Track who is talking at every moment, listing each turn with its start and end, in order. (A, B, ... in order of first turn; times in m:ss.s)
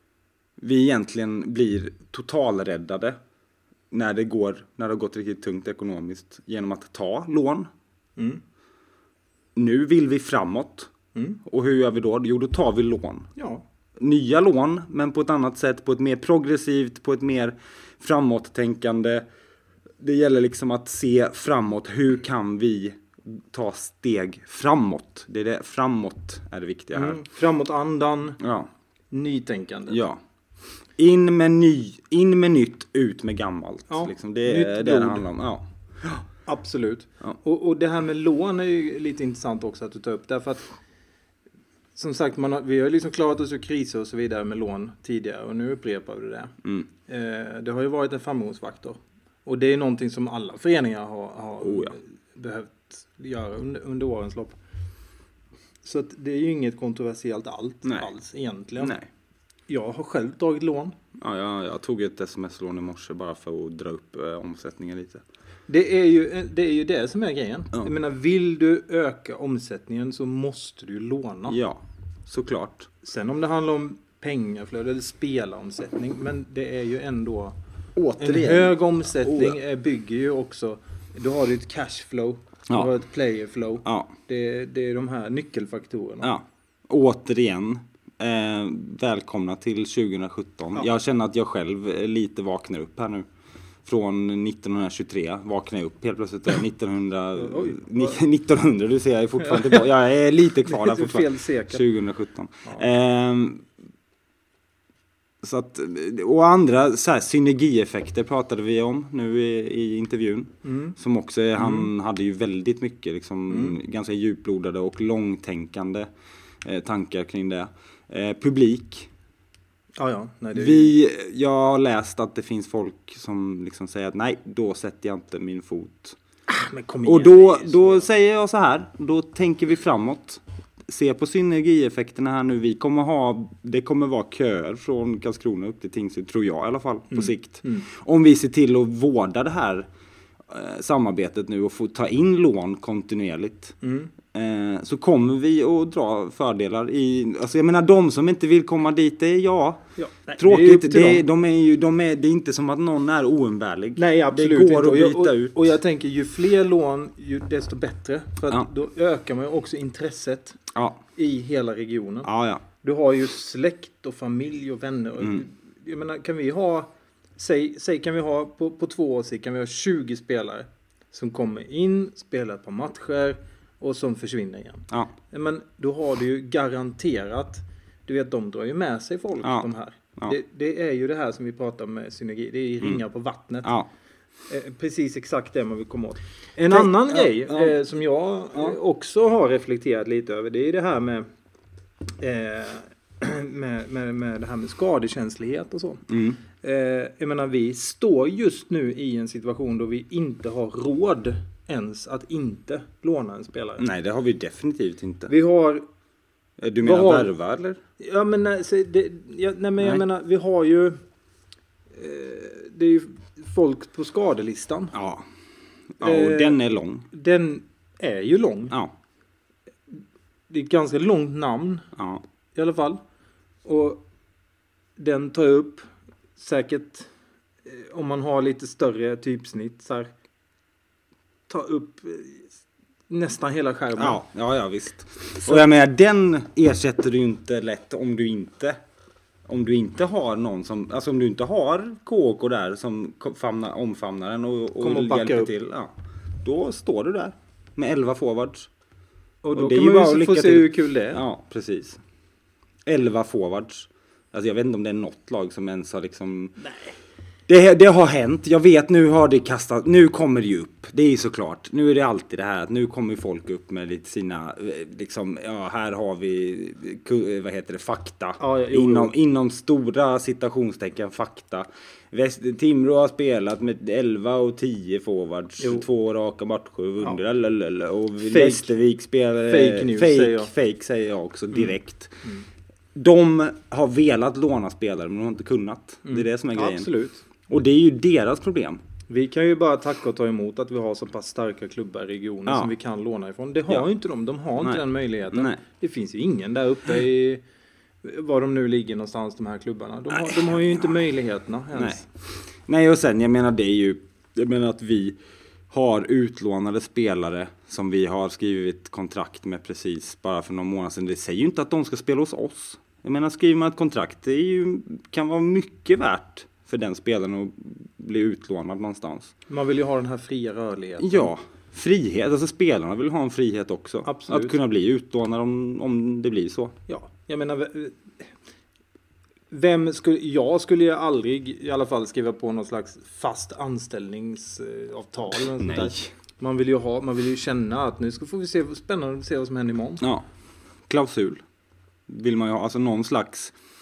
0:00.6-0:03.2 A
0:03.9-0:07.7 A
0:08.2-0:08.4 B
0:09.6-0:10.9 A
0:11.1-0:11.4 B
0:11.4-0:13.3 A
0:13.4-0:13.6 B
0:14.0-0:19.2 A
0:20.0-0:27.2 A
0:26.9-0:28.4 B
0:28.4-0:28.7 A
0:29.1-0:30.0 B
0:29.9-0:30.2 A
0:31.0-0:36.2 A
0:33.9-0:35.2 B
0:36.4-0:40.7 B
0:41.9-0:46.5 B
0:47.1-0:54.6 B
0:51.6-0:52.0 A
0:55.8-0:59.0 B
0:58.8-0:59.1 A
0:59.7-1:01.0 B
1:01.2-1:05.2 A
1:05.7-1:11.6 B
1:11.5-1:12.9 A
1:13.0-1:17.6 B
1:18.0-1:19.6 A
1:18.2-1:26.3 B
1:23.8-1:24.1 A
1:26.2-1:33.3 A
1:33.8-1:43.6 A
1:37.4-1:38.2 B
1:39.4-1:39.8 B
1:40.6-1:41.8 B
1:45.4-1:56.1 A
1:50.6-1:51.0 B
1:51.6-1:51.9 B
1:53.5-1:53.8 B
1:56.6-1:59.1 A
2:00.0-2:00.9 B
2:00.5-2:06.2 A
2:06.5-2:08.1 B
2:07.0-2:19.9 A
2:17.1-2:17.9 B
2:20.5-2:23.7 A
2:23.8-2:24.1 B
2:24.3-2:35.7 A
2:30.0-2:31.2 B
2:34.0-2:40.6 B
2:40.7-2:41.0 A
2:41.2-2:42.3 B
2:42.2-2:42.6 A
2:42.8-3:03.7 B
2:59.4-3:00.4 A
3:03.6-3:03.9 A
3:04.5-3:11.3 B
3:06.7-3:07.8 A
3:12.2-3:16.0 B
3:16.1-3:16.4 A
3:16.6-3:23.8 B
3:23.8-3:25.3 A
3:25.3-3:25.8 B
3:26.6-3:27.8 A
3:26.8-3:27.3 B
3:28.0-3:31.0 B
3:31.9-3:34.9 B
3:34.9-3:35.2 A
3:36.0-3:37.0 A
3:36.0-3:36.6 B
3:37.1-3:38.8 B
3:40.5-3:41.9 B
3:42.0-3:42.2 A
3:42.5-3:43.0 B
3:43.6-3:44.0 B
3:45.0-3:47.1 B
3:47.6-3:50.1 B
3:51.5-3:52.5 B
3:53.1-3:54.2 B
3:54.0-3:58.8 A
3:59.5-4:08.7 A
4:04.8-4:05.5 B
4:09.4-4:11.2 B
4:09.5-4:12.0 A
4:12.9-4:16.6 A
4:16.6-4:16.9 B
4:17.5-4:42.2 A
4:28.4-4:29.1 B
4:35.6-4:35.9 B
4:38.2-4:38.7 B
4:39.5-4:40.5 B
4:41.5-4:42.4 B
4:42.9-4:46.9 A
4:46.0-4:47.2 B
4:47.5-4:48.8 A
4:49.1-4:57.4 B
4:52.4-4:52.7 A
4:54.6-4:55.6 A
4:58.0-5:02.0 B
5:00.3-5:00.8 A
5:01.7-5:05.2 A
5:05.7-5:19.3 A
5:19.5-5:21.3 B
5:21.0-5:26.7 A
5:24.0-5:24.6 B
5:26.9-5:28.3 B
5:29.5-5:40.0 B
5:35.6-5:36.1 A
5:40.0-5:40.2 A
5:40.9-5:41.4 A
5:42.1-5:43.5 A